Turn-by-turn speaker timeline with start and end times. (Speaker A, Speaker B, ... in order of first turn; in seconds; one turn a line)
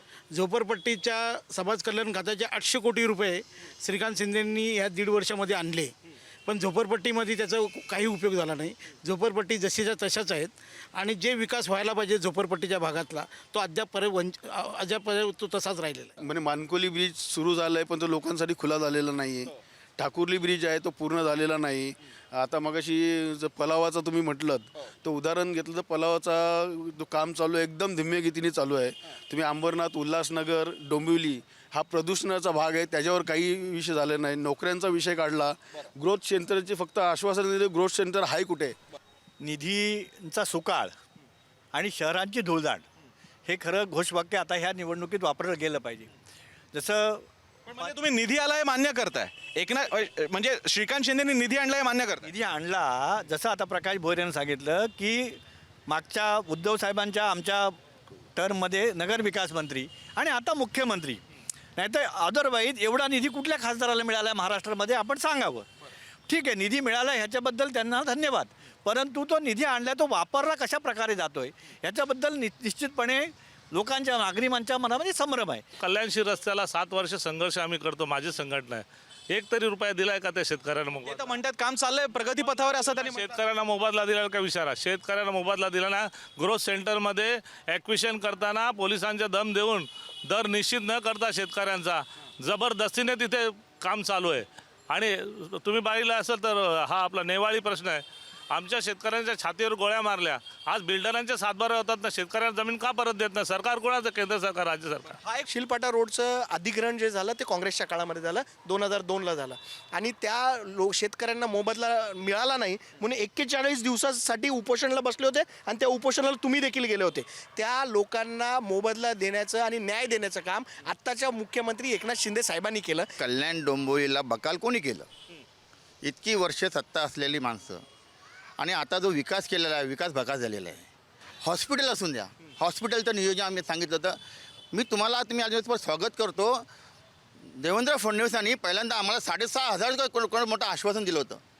Speaker A: 0.3-5.9
Speaker A: 6.5-16.1
Speaker B: 16.2-38.8
Speaker C: 39.4-41.0
Speaker C: 41.7-42.8
Speaker C: 43.5-46.1
Speaker C: 46.7-47.3
Speaker D: 47.7-52.3
Speaker C: 52.2-57.8
Speaker C: 58.4-61.2
Speaker C: 61.8-65.7
Speaker C: 66.3-75.6
Speaker E: 75.8-81.3
Speaker D: 81.0-83.3
Speaker E: 83.0-105.2
Speaker F: 105.5-123.1
Speaker G: 123.2-125.1
Speaker G: 126.0-127.8
Speaker G: 128.6-130.8
Speaker G: 131.4-134.2
Speaker G: 134.7-136.7
Speaker G: 137.6-141.4